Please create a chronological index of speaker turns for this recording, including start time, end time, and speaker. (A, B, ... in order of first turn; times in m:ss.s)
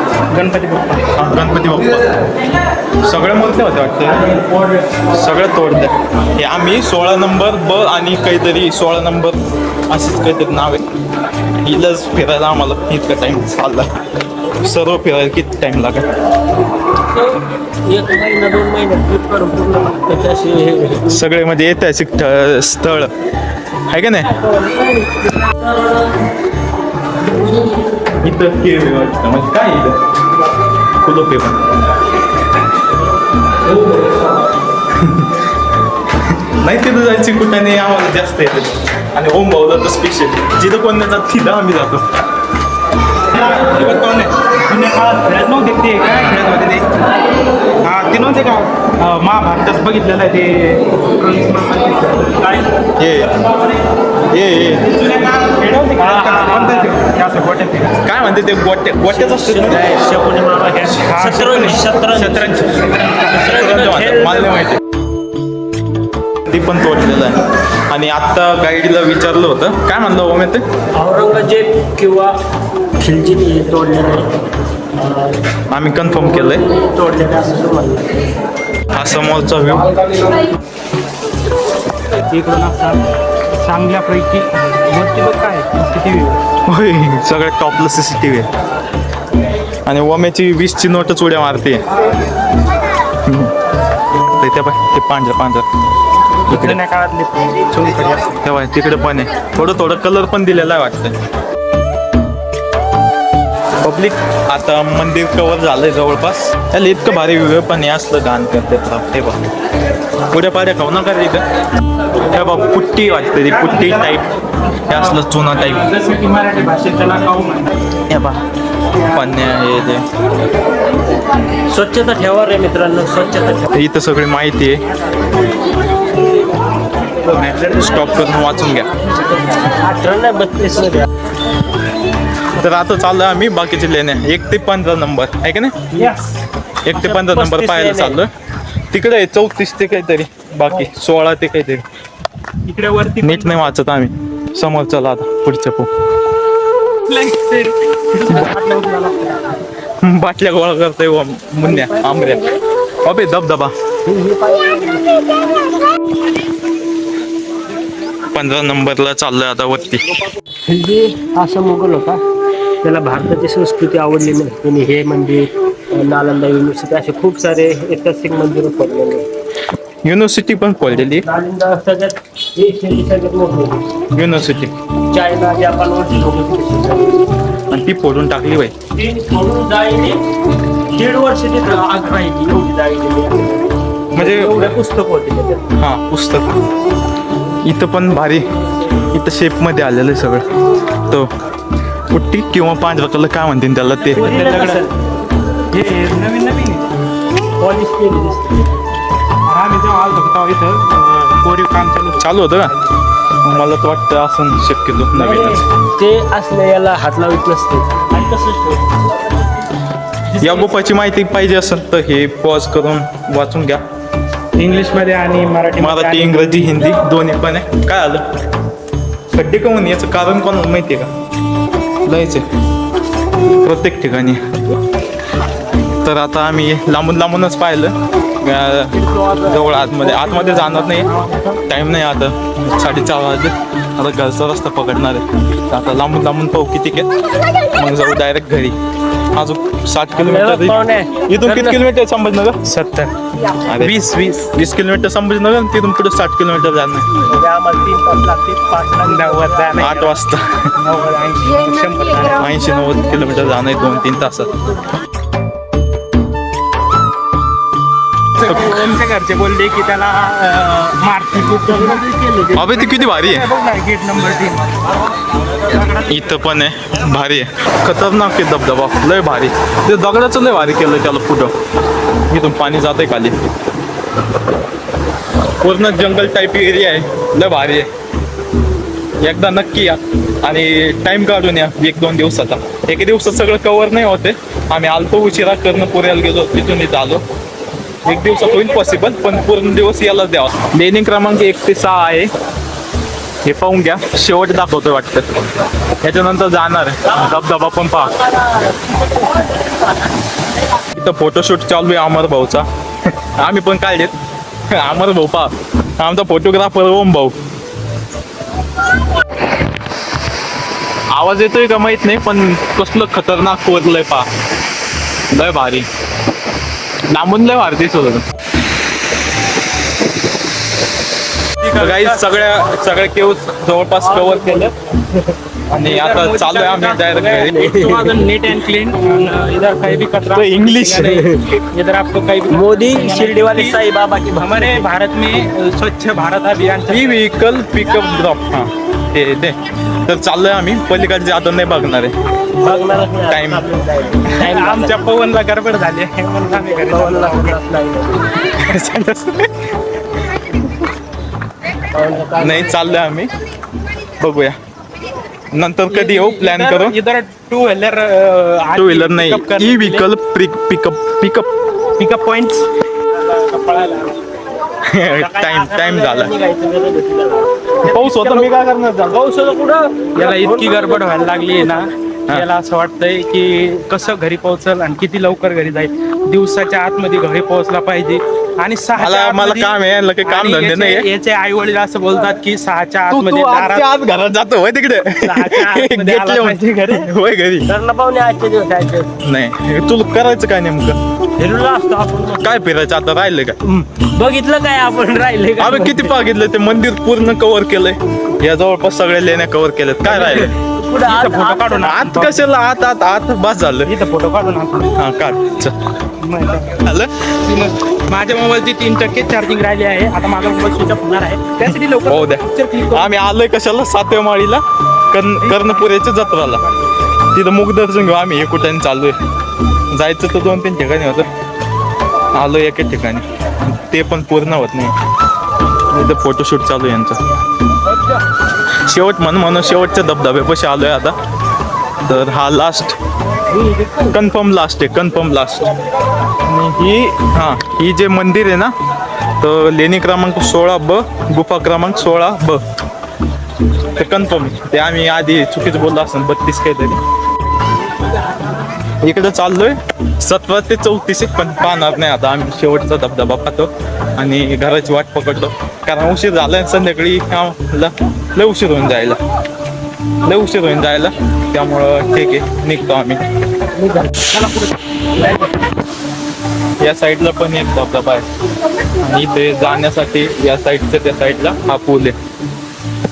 0:00.3-0:01.1 A
0:01.1-0:02.1 B
0:03.0-0:04.3 B
0:05.1-0:09.4 B
0:09.9-0:10.8 B
0:11.6-0:13.8 B
0:14.5-0:16.0 B
0:17.1-0:21.2 C
0:21.1-0:23.1 B
0:23.9-0:24.3 B
0:24.3-0:26.0 C
0:28.2-0:30.0 B
0:31.0-0:31.6 B
0:34.9-0:35.5 B
0:36.1-0:42.1 B
0:43.3-0:46.8 A
0:47.8-0:52.7 A
0:53.0-0:53.4 B
0:54.3-0:54.9 B
0:54.9-0:57.9 A
0:56.0-0:56.9 C
0:58.0-1:00.0 B
0:59.1-1:04.7 C
1:00.8-1:03.7 A
1:03.4-1:04.8 B
1:06.4-1:10.6 B
1:11.0-1:12.3 C
1:13.0-1:14.3 C
1:14.9-1:15.4 C
1:15.7-1:16.6 B
1:16.0-1:18.1 C
1:18.9-1:20.1 B
1:22.3-1:23.0 A
1:23.6-1:26.4 A
1:26.7-1:28.5 B
1:29.8-1:31.8 B
1:33.2-1:33.5 B
1:34.4-1:35.6 B
1:36.4-1:38.4 A
1:36.5-1:36.8 B
1:38.4-1:41.2 B
1:43.8-1:49.4 B
1:50.3-1:51.4 B
1:52.2-1:54.3 B
1:53.5-1:54.2 A
1:54.9-1:55.8 B
1:54.9-1:57.7 A
1:58.1-1:58.4 B
1:59.1-2:00.0 B
2:01.7-2:03.7 C
2:03.7-2:04.8 B
2:07.2-2:08.9 B
2:09.7-2:11.1 C
2:12.6-2:15.9 B
2:16.8-2:18.3 B
2:16.9-2:18.2 C
2:18.9-2:21.8 B
2:22.6-2:23.7 A
2:23.2-2:25.9 B
2:27.0-2:29.5 A
2:30.0-2:32.5 B
2:31.6-2:32.4 C
2:33.0-2:33.7 B
2:34.0-2:35.2 C
2:38.3-2:40.0 B
2:40.6-2:42.2 C
2:42.8-2:49.3 C
2:50.0-2:51.2 B
2:51.0-2:53.8 C
2:54.1-2:54.7 B
2:55.1-2:57.3 C
2:57.7-2:58.7 B
2:58.9-3:00.2 C
3:00.9-3:05.7 C
3:04.1-3:04.7 B
3:05.8-3:06.5 B
3:07.6-3:08.4 B
3:09.1-3:10.4 B
3:12.1-3:14.3 B
3:14.1-3:14.9 C
3:14.2-3:14.9 A
3:15.7-3:16.9 A
3:17.6-3:18.7 C
3:19.5-3:22.7 A
3:22.2-3:22.7 B
3:23.4-3:25.6 B
3:25.2-3:29.0 C
3:28.2-3:28.6 A
3:30.3-3:30.7 A
3:30.4-3:33.8 B
3:34.6-3:36.9 A
3:35.8-3:38.2 B
3:39.3-3:41.1 B
3:42.0-3:42.4 B
3:43.6-3:44.6 B
3:45.9-3:51.1 B
3:49.1-3:51.6 A
3:51.7-3:57.1 B
3:57.7-3:58.8 B
3:59.3-4:02.6 B
4:00.1-4:01.8 C
4:02.6-4:03.1 A
4:03.6-4:04.0 B
4:03.7-4:04.5 A
4:04.5-4:07.1 B
4:07.3-4:10.2 C
4:09.0-4:09.9 A
4:09.8-4:10.6 B
4:10.8-4:12.5 A
4:12.4-4:14.5 B
4:18.4-4:22.0 A
4:21.6-4:22.8 C
4:22.5-4:23.5 B
4:22.6-4:24.9 A
4:25.6-4:26.0 A
4:26.0-4:31.5 B
4:32.3-4:33.4 B
4:35.6-4:37.9 B
4:39.2-4:47.2 B
4:48.0-4:52.3 B
4:53.4-4:55.2 B
4:56.0-4:58.2 B
5:00.9-5:04.1 B
5:04.7-5:07.4 B
5:11.1-5:14.3 B
5:15.3-5:15.9 B
5:17.1-5:18.2 B
5:21.6-5:22.5 A
5:21.8-5:24.7 B
5:24.0-5:24.7 A
5:25.7-5:27.7 B
5:25.7-5:33.8 A
5:27.4-5:28.3 C
5:30.3-5:31.2 B
5:31.0-5:31.5 C
5:32.5-5:34.8 C
5:34.4-5:37.2 A
5:36.9-5:42.1 B
5:42.6-5:45.0 C
5:43.3-5:43.6 B
5:44.3-5:47.6 A
5:46.5-5:48.3 C
5:48.5-5:49.8 B
5:51.9-5:52.8 C
5:52.4-5:53.3 B
5:54.2-5:54.6 B
5:55.5-5:57.0 B
5:55.9-6:00.0 A
5:58.8-6:01.5 B
6:02.0-6:04.1 A
6:04.8-6:06.3 B
6:05.2-6:07.7 C
6:07.8-6:08.5 A
6:07.8-6:09.2 B
6:09.1-6:11.6 C
6:10.1-6:23.9 A
6:19.0-6:21.1 B
6:23.1-6:27.7 B
6:25.2-6:27.1 A
6:27.6-6:29.1 C
6:29.2-6:31.0 B
6:31.4-6:32.6 C
6:32.4-6:33.6 B
6:33.6-6:36.2 C
6:35.6-6:40.5 B
6:40.1-6:42.0 C
6:40.2-6:42.4 A
6:41.8-6:43.9 B
6:43.8-6:45.0 A
6:45.0-6:45.7 B
6:46.2-6:46.8 A
6:46.8-6:47.3 B
6:47.4-6:53.1 A
6:52.0-6:56.6 B
6:55.4-6:56.9 A
6:57.3-6:59.2 B
6:59.9-7:01.3 B
7:02.3-7:04.9 B
7:05.9-7:07.2 B
7:08.8-7:11.1 B
7:12.0-7:13.0 B
7:14.1-7:15.7 B
7:16.4-7:18.7 B
7:19.4-7:22.6 B
7:23.9-7:27.0 B
7:29.0-7:39.2 B
7:40.2-7:43.2 B
7:43.7-7:44.3 C
7:44.3-7:45.3 A
7:46.8-7:48.2 B
7:48.8-7:52.2 B